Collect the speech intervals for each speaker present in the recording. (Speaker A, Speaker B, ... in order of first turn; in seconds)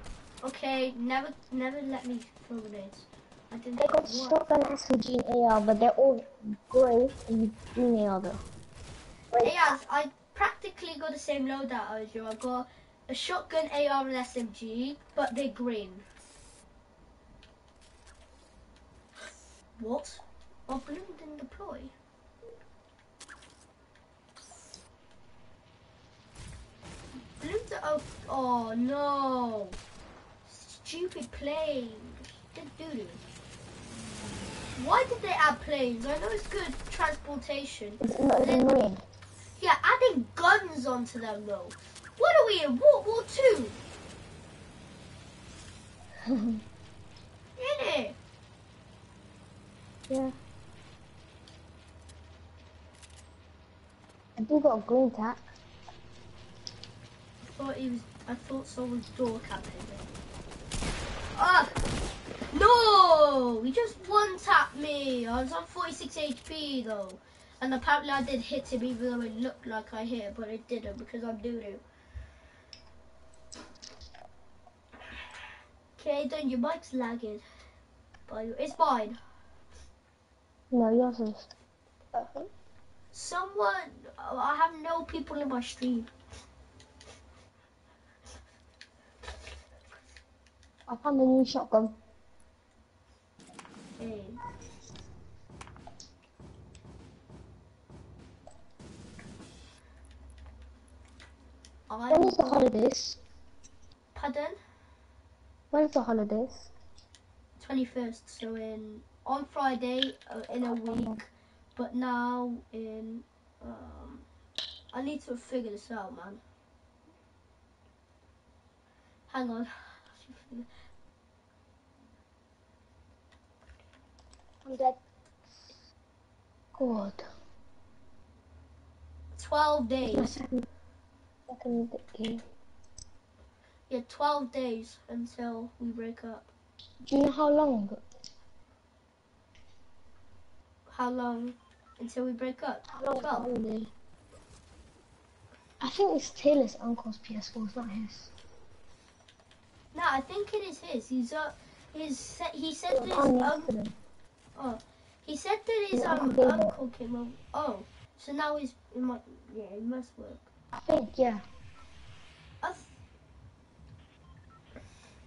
Speaker A: 0.4-4.4, 9.4-16.0, 19.8-21.9, 27.1-29.8, 30.4-33.2, 34.8-38.7, 39.6-43.8, 47.6-48.2, 57.5-60.1, 61.3-61.7, 62.5-71.8, 76.0-77.4, 78.3-79.2, 83.1-86.1, 94.0-94.4, 101.9-102.6, 104.1-104.6, 107.6-114.2, 114.9-116.4, 119.3-120.7, 129.3-130.3, 133.9-136.5, 140.9-143.5, 149.9-153.7, 154.6-160.5, 162.6-162.9
Speaker B: 3.8-8.4, 9.3-9.7, 38.0-39.0, 46.2-46.6, 50.1-50.4, 54.4-55.4, 80.7-81.5, 82.1-82.5, 90.9-92.0, 102.1-103.2, 105.7-106.7, 110.6-111.2, 124.6-125.0, 126.7-127.3, 130.1-130.7, 131.5-132.4, 137.0-138.0, 142.9-143.9, 145.8-148.3, 152.9-153.9, 155.9-156.7, 160.7-161.4